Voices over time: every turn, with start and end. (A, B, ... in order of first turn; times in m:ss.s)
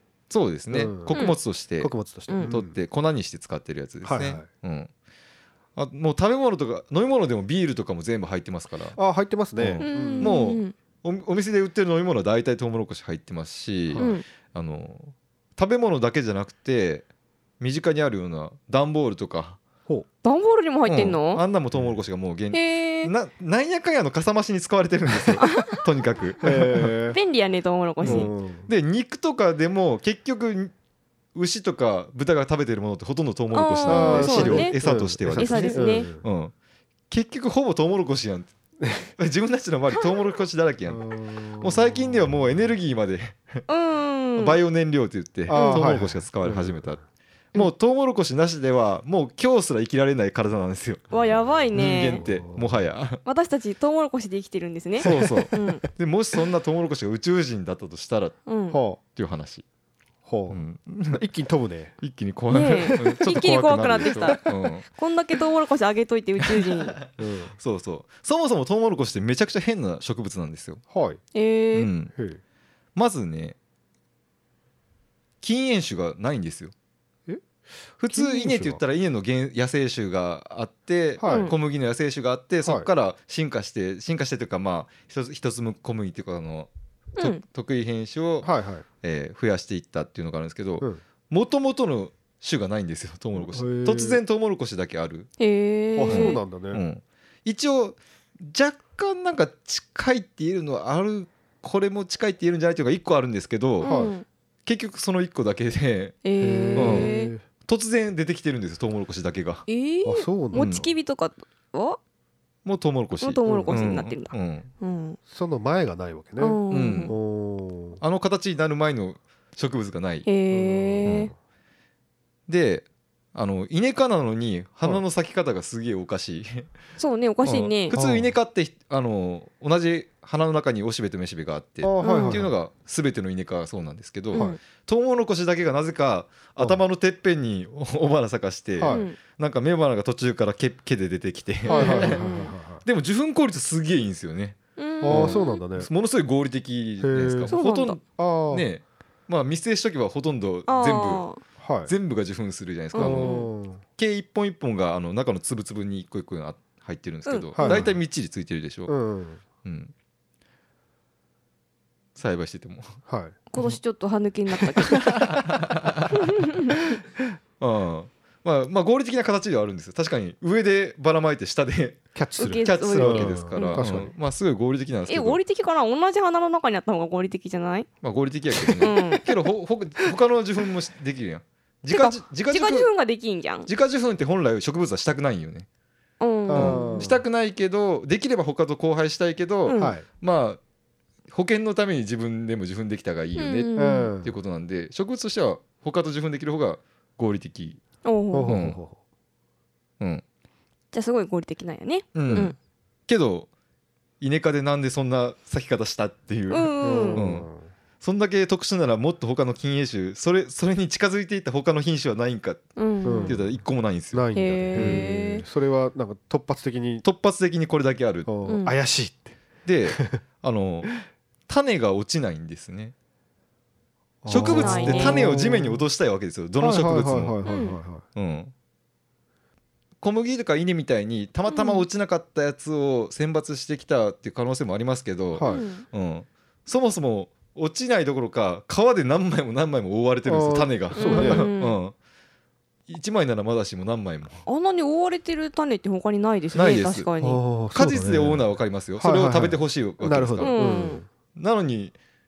0:00.3-0:04.9 A
0:00.7-0:01.2 B
0:01.1-0:01.4 C
0:01.8-0:02.8 B
0:04.0-0:04.5 B
0:05.8-0:09.0 A
0:08.9-0:10.4 B
0:09.6-0:17.1 A
0:09.8-0:10.7 C
0:13.9-0:14.2 B
0:14.0-0:14.2 C
0:17.6-0:19.6 A
0:20.2-0:21.4 C
0:20.8-0:27.0 A
0:22.5-0:23.1 C
0:25.4-0:25.8 C
0:26.4-0:27.2 B
0:27.1-0:28.3 C
0:28.0-0:30.7 A
0:28.0-0:28.7 B
0:31.3-0:36.5 A
0:33.5-0:34.8 C
0:33.8-0:36.2 B
0:35.3-0:36.1 C
0:37.1-0:38.5 A
0:38.8-0:39.1 B
0:39.2-0:43.6 A
0:40.9-0:42.6 B
0:43.7-0:44.6 C
0:44.4-0:47.0 A
0:45.5-0:47.0 B
0:45.5-0:45.8 C
0:47.5-0:51.1 A
0:51.1-0:52.2 C
0:51.4-0:52.9 B
0:51.7-0:53.2 A
0:53.2-0:55.8 C
0:55.0-0:58.4 A
0:55.0-0:55.6 B
0:58.4-0:58.8 C
0:58.7-0:59.0 B
0:59.1-0:59.6 A
1:00.2-1:02.0 B
1:00.5-1:01.2 A
1:02.0-1:04.9 A
1:02.5-1:07.0 C
1:02.9-1:03.2 B
1:04.0-1:04.4 B
1:06.6-1:10.8 A
1:07.2-1:07.6 B
1:10.9-1:11.2 B
1:11.3-1:11.9 C
1:11.7-1:12.1 A
1:12.1-1:12.4 B
1:13.0-1:13.6 A
1:15.4-1:16.7 A
1:18.0-1:28.5 A
1:18.1-1:18.8 B
1:21.2-1:21.5 B
1:21.2-1:21.5 C
1:22.6-1:22.9 B
1:28.4-1:28.8 B
1:29.0-1:35.3 A
1:33.3-1:34.2 B
1:35.4-1:36.4 C
1:35.9-1:36.8 B
1:36.1-1:43.9 A
1:43.8-1:44.2 C
1:43.8-1:44.1 B
1:44.6-1:46.2 A
1:46.2-1:47.3 C
1:46.4-1:47.4 B
1:46.7-1:47.1 A
1:47.6-1:49.7 A
1:49.7-1:52.0 C
1:50.0-1:50.9 B
1:50.5-1:50.9 A
1:52.6-1:54.7 A
1:53.2-1:55.2 C
1:53.4-1:53.8 B
1:55.3-1:58.0 B
1:56.4-1:57.1 C
1:56.7-1:57.2 A
1:58.0-2:00.3 A
2:00.2-2:01.3 C
2:00.5-2:01.3 B
2:01.0-2:01.3 A
2:02.5-2:06.7 A
2:07.0-2:08.0 C
2:07.4-2:22.2 A
2:07.9-2:08.3 B
2:11.8-2:12.5 B
2:12.0-2:12.4 C
2:14.3-2:14.6 B
2:14.3-2:14.6 C
2:18.8-2:19.0 B
2:18.9-2:19.2 C
2:21.6-2:22.5 C
2:21.7-2:22.8 B
2:22.8-2:31.3 A
2:24.8-2:25.6 C
2:25.0-2:25.9 B
2:27.0-2:27.6 B
2:27.5-2:28.0 C
2:28.2-2:28.6 B
2:30.7-2:31.4 C
2:31.6-2:31.9 B
2:31.8-2:33.4 A
2:32.9-2:33.5 C
2:33.0-2:33.8 B
2:34.0-2:38.9 A
2:37.2-2:37.9 C
2:37.6-2:37.9 B
2:38.9-2:39.4 B
2:39.6-2:39.9 A
2:42.1-2:43.0 A
2:43.1-2:43.4 B
2:43.5-2:45.4 C
2:45.1-2:46.3 A
2:46.1-2:47.0 C
2:47.6-2:55.4 A
2:52.1-2:54.1 B
2:52.4-2:53.9 C
2:55.1-2:57.9 C
2:58.0-3:02.9 A
2:58.6-2:58.9 B
2:58.8-2:59.3 C
3:01.9-3:03.7 C
3:03.6-3:05.7 A
3:06.2-3:07.1 C
3:06.5-3:07.2 B
3:06.5-3:10.6 A
3:09.6-3:10.0 C
3:09.8-3:10.0 B
3:11.3-3:17.8 A
3:13.4-3:14.1 C
3:13.8-3:14.3 B
3:18.0-3:18.6 C
3:18.3-3:19.0 B
3:18.5-3:18.8 A
3:20.9-3:22.6 C
3:22.1-3:22.5 A
3:22.2-3:22.5 B
3:23.1-3:23.5 A
3:24.2-3:27.5 A
3:26.5-3:27.2 C
3:26.8-3:27.7 B
3:28.0-3:32.6 A
3:32.8-3:33.4 C
3:33.0-3:37.0 B
3:33.2-3:35.0 A
3:34.3-3:35.4 C
3:37.0-3:38.3 A
3:38.2-3:39.4 B
3:38.4-3:38.7 C
3:39.6-3:40.9 A
3:39.9-3:40.2 B
3:41.5-3:42.9 A
3:44.2-3:45.8 B
3:44.3-3:47.4 A
3:44.4-3:45.2 C
3:46.6-3:48.0 B
3:47.4-3:47.8 C
3:48.1-3:48.5 A
3:50.0-4:01.9 A
3:51.5-3:51.8 C
3:55.3-3:55.6 B
3:55.4-3:55.8 C
4:00.2-4:01.5 B
4:01.0-4:01.8 C
4:02.9-4:04.4 A
4:04.4-4:07.4 C
4:06.5-4:07.1 A
4:07.2-4:11.1 B
4:07.7-4:10.6 A
4:10.4-4:11.0 C
4:11.4-4:11.9 A